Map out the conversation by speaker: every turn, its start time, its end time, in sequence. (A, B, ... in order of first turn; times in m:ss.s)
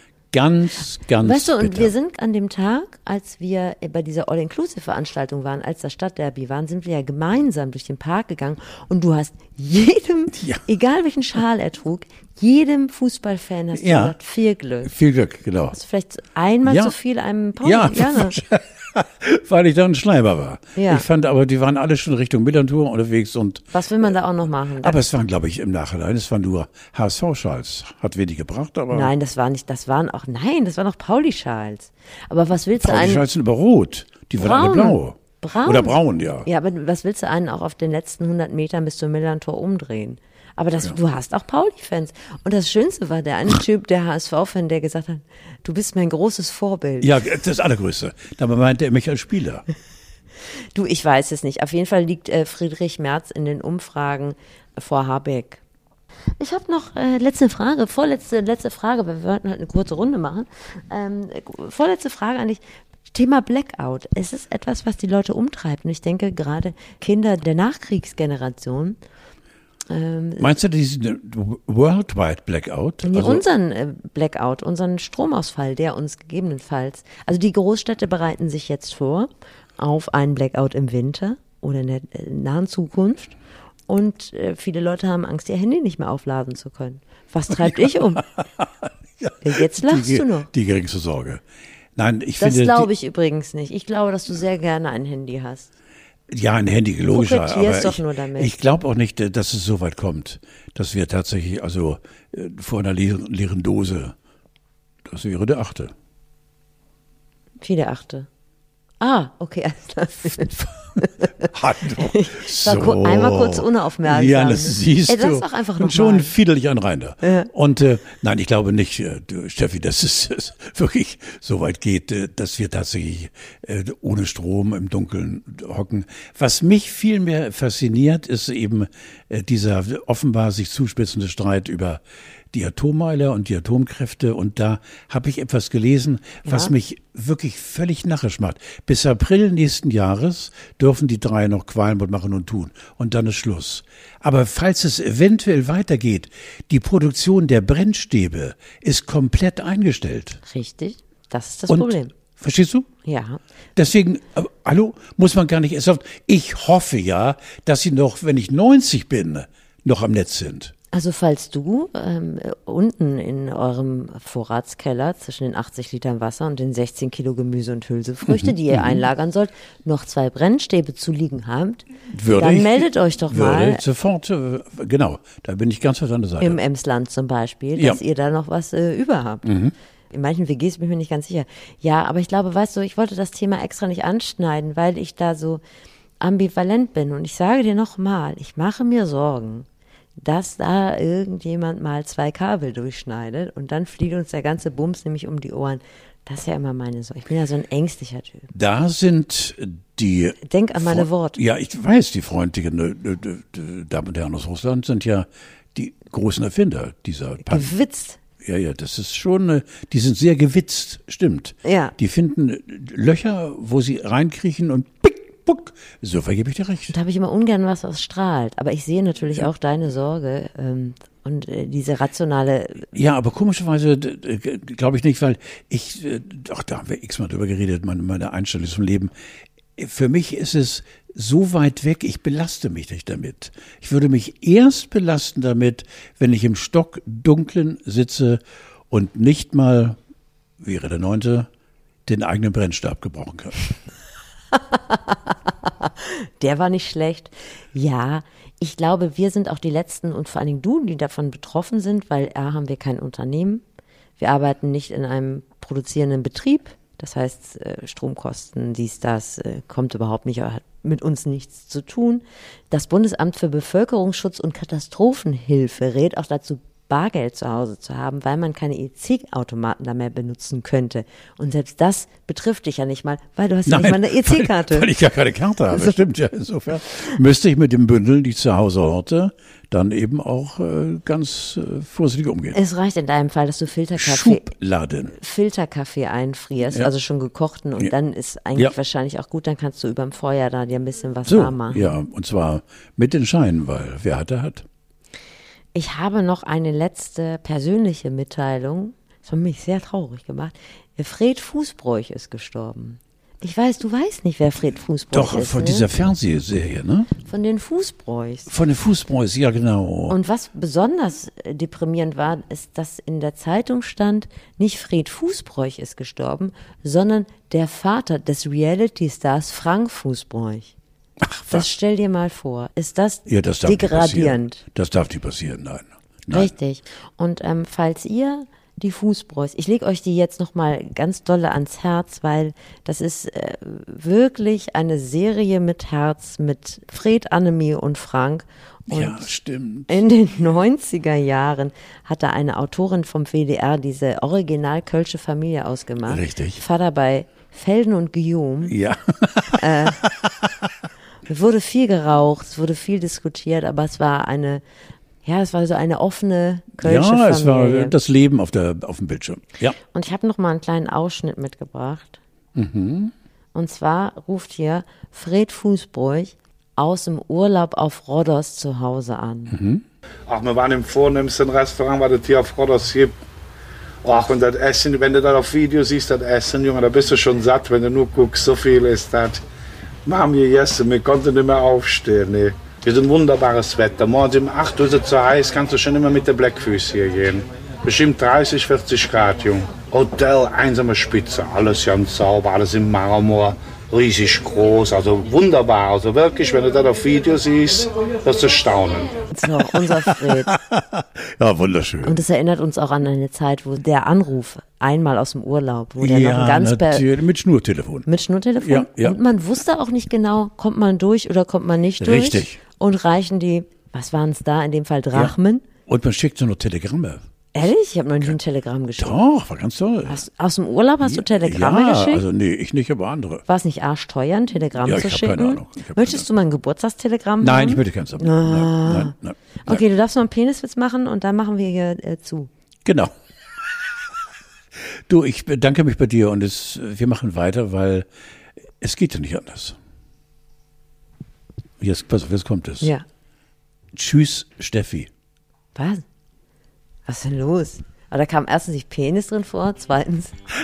0:00.3-0:01.9 A
0:01.2-0:14.9 B
0:10.4-0:10.6 A
0:13.7-0:14.2 A
0:14.8-0:15.8 A
0:15.7-0:18.4 B
0:16.6-0:17.0 A
0:17.6-0:23.8 A
0:20.8-0:21.0 B
0:23.7-0:25.0 B
0:24.8-0:29.1 A
0:28.9-0:33.2 B
0:32.8-0:36.5 A
0:34.4-0:47.2 B
0:47.0-0:49.6 A
0:50.7-0:55.6 B
0:56.4-1:09.0 B
1:09.9-1:10.5 B
1:10.4-1:13.4 A
1:13.0-1:23.4 B
1:23.9-1:28.2 B
1:27.6-1:31.4 A
1:29.4-1:30.5 B
1:32.0-1:32.9 A
1:32.4-1:35.7 B
1:36.3-1:44.1 A
1:37.1-1:38.5 B
1:45.0-1:45.9 A
1:47.6-1:48.3 B
1:49.0-1:56.3 B
1:51.4-2:30.4 A
1:57.2-1:57.5 B
2:30.4-2:32.1 B
2:31.7-2:32.9 A
2:33.0-2:33.4 B
2:33.8-2:40.7 A
2:40.9-2:53.8 B
2:48.2-2:49.0 A
2:52.1-2:56.6 A
2:56.4-2:59.5 B
2:59.4-2:59.7 A
3:00.1-3:05.6 B
3:06.2-3:18.5 B
3:18.5-3:27.7 A
3:20.4-3:21.4 B
3:27.5-3:28.2 B
3:28.4-3:36.9 A
3:31.6-3:31.9 B
3:36.9-3:42.9 B
3:42.9-3:49.1 A
3:49.8-4:00.0 A
4:00.6-4:01.5 A
4:02.0-4:03.6 A
4:04.5-4:13.6 B
4:14.2-4:34.9 B
4:33.6-4:42.6 A
4:35.7-4:36.0 B
4:42.5-4:44.5 B
4:44.0-4:45.1 A
4:45.1-4:52.0 B
4:51.2-4:54.6 A
4:55.7-5:05.9 B
5:05.1-5:07.1 A
5:07.2-5:08.5 B
5:08.5-5:10.2 A
5:10.1-5:20.7 B
5:21.2-5:21.7 A
5:21.5-5:24.6 B
5:23.2-5:26.5 A
5:26.3-5:39.3 B
5:38.9-5:40.0 A
5:39.9-5:48.7 B
5:46.0-5:46.6 A
5:48.7-5:50.6 A
5:49.5-5:50.0 B
5:51.2-5:54.6 B
5:55.2-5:57.9 B
5:56.8-5:59.8 A
5:59.9-6:02.2 B
6:02.5-6:03.1 A
6:03.5-6:09.6 B
6:09.5-6:09.8 A
6:10.3-6:13.1 C
6:14.0-6:19.4 C
6:20.0-6:39.1 C
6:39.3-6:40.5 B
6:39.6-6:42.2 A
6:42.0-6:47.0 B
6:46.0-6:48.1 A
6:48.0-6:55.6 B
6:48.6-6:49.2 A
6:52.0-6:52.6 A
6:55.9-6:57.2 A
6:57.5-6:59.2 B
6:59.0-7:00.2 A
7:00.1-7:02.2 B
7:01.0-7:03.4 A
7:03.5-7:09.1 B
7:04.8-7:06.2 A
7:07.4-7:09.8 A
7:09.6-7:12.5 B
7:12.8-7:13.1 A
7:14.9-7:18.1 A
7:18.8-7:19.8 A
7:21.8-7:22.9 A
7:23.9-7:25.1 A
7:25.7-7:26.0 B
7:27.0-7:30.4 B